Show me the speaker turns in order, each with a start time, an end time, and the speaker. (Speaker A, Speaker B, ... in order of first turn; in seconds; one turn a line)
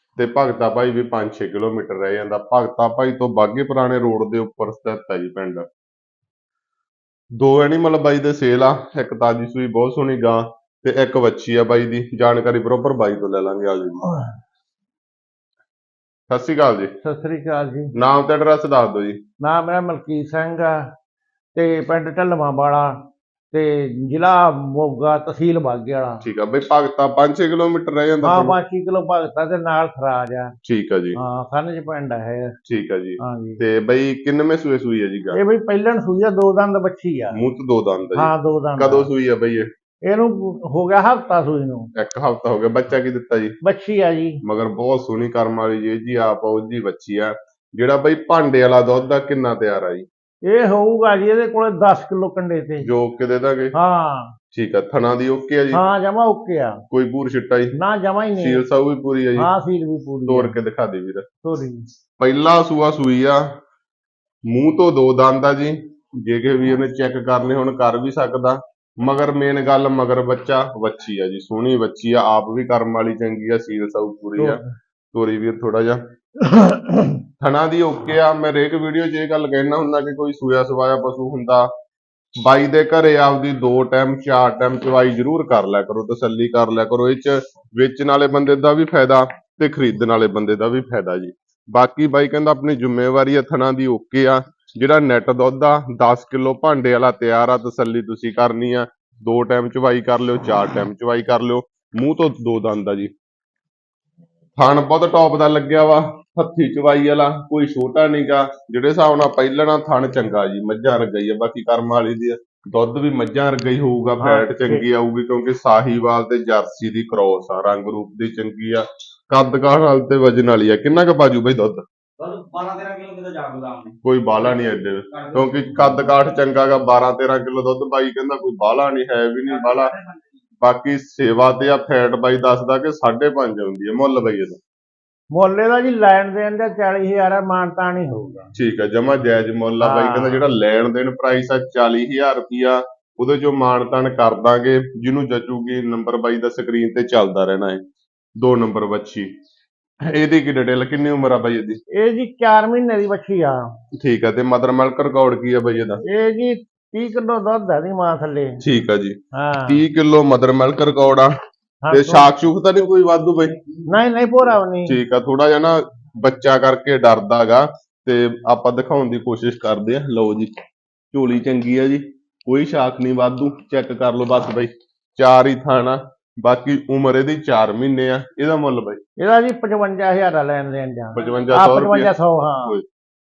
Speaker A: 0.2-5.7
Speaker A: 7.4-14.1
Speaker A: 16.3-16.9
Speaker B: 17.0-17.9
Speaker A: 17.9-19.2
Speaker B: 19.4-20.8
Speaker B: 21.6-23.0
Speaker B: 23.5-26.2
Speaker A: 26.2-28.6
Speaker B: 28.2-30.5
Speaker A: 30.6-31.2
Speaker B: 31.2-32.5
Speaker A: 32.7-35.4
Speaker B: 33.2-33.6
Speaker B: 35.3-37.4
Speaker A: 37.3-39.7
Speaker B: 38.1-39.1
Speaker B: 40.1-41.9
Speaker A: 42.0-43.6
Speaker B: 43.6-44.4
Speaker A: 44.4-50.1
Speaker B: 50.5-52.9
Speaker A: 52.8-53.7
Speaker B: 53.7-54.4
Speaker A: 54.5-55.8
Speaker B: 55.7-56.8
Speaker A: 56.9-57.8
Speaker B: 57.8-58.6
Speaker A: 58.4-59.5
Speaker B: 59.4-60.5
Speaker A: 60.3-61.2
Speaker B: 61.4-61.9
Speaker A: 62.2-63.4
Speaker A: 64.5-74.6
Speaker B: 74.4-74.7
Speaker A: 75.1-76.0
Speaker B: 76.4-77.2
Speaker A: 77.4-81.7
Speaker A: 82.4-103.1
Speaker A: 104.6-121.8
Speaker B: 114.2-114.8
Speaker C: 122.2-124.0
Speaker A: 124.0-129.9
Speaker C: 125.1-125.4
Speaker A: 130.6-134.6
Speaker B: 135.3-138.5
Speaker A: 138.6-147.8
Speaker B: 139.8-140.4
Speaker A: 148.4-149.3
Speaker A: 150.0-151.8
Speaker B: 151.9-153.6
Speaker A: 154.0-156.0
Speaker B: 156.0-158.6
Speaker A: 158.6-161.3
Speaker B: 159.3-159.8
Speaker B: 161.8-162.3
Speaker A: 161.9-163.6
Speaker B: 163.9-165.0
Speaker A: 164.9-170.5
Speaker A: 171.1-179.0
Speaker B: 179.2-182.7
Speaker A: 181.2-182.1